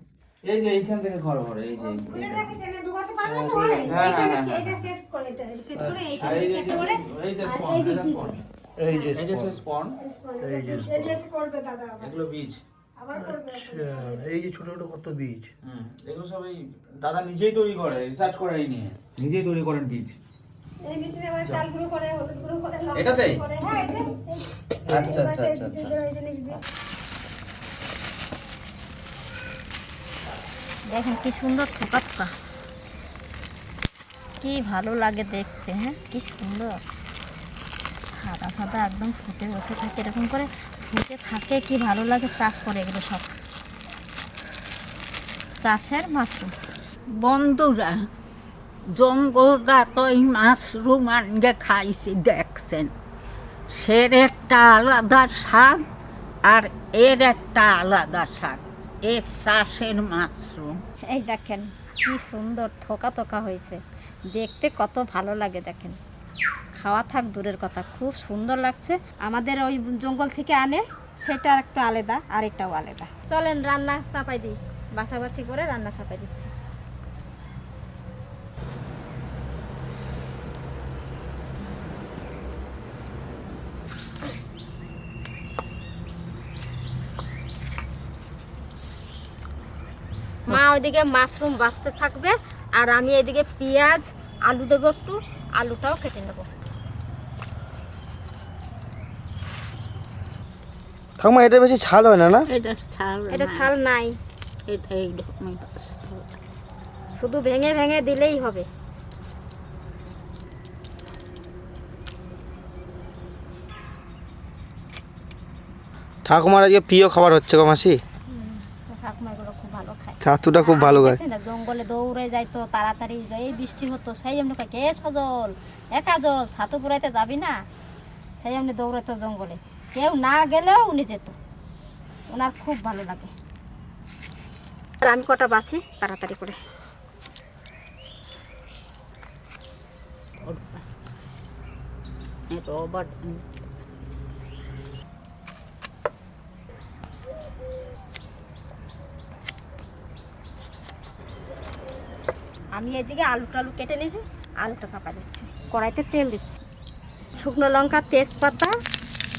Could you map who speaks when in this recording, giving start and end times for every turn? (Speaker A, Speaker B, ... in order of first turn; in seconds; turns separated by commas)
Speaker A: 0.5-2.6, Speaker B: 1.8-8.4, Speaker A: 3.5-4.8, Speaker A: 5.8-8.4, Speaker C: 8.8-9.5, Speaker A: 9.1-9.9, Speaker B: 10.0-12.1, Speaker C: 10.4-10.8, Speaker A: 10.6-11.2, Speaker A: 12.0-12.6, Speaker B: 13.0-14.3, Speaker C: 13.2-15.5, Speaker A: 15.6-20.2, Speaker B: 20.9-26.6, Speaker A: 22.9-23.4, Speaker A: 24.9-26.1, Speaker D: 30.9-32.3, Speaker D: 34.4-36.8, Speaker D: 38.2-43.3, Speaker D: 45.6-46.5, Speaker E: 47.1-48.0, Speaker E: 48.9-52.9, Speaker E: 53.7-55.8, Speaker E: 56.5-60.8, Speaker D: 61.1-63.8, Speaker D: 64.3-66.0, Speaker D: 66.8-76.5, Speaker D: 90.5-96.5, Speaker F: 101.3-102.2, Speaker E: 102.5-103.7, Speaker D: 103.3-104.1, Speaker E: 104.7-106.3, Speaker D: 107.2-108.7, Speaker F: 116.4-117.7, Speaker D: 118.3-127.6, Speaker D: 128.4-131.3, Speaker D: 132.3-133.3, Speaker D: 135.0-136.6, Speaker E: 140.4-140.8, Speaker E: 142.5-143.4, Speaker D: 152.8-156.5, Speaker D: 157.4-158.7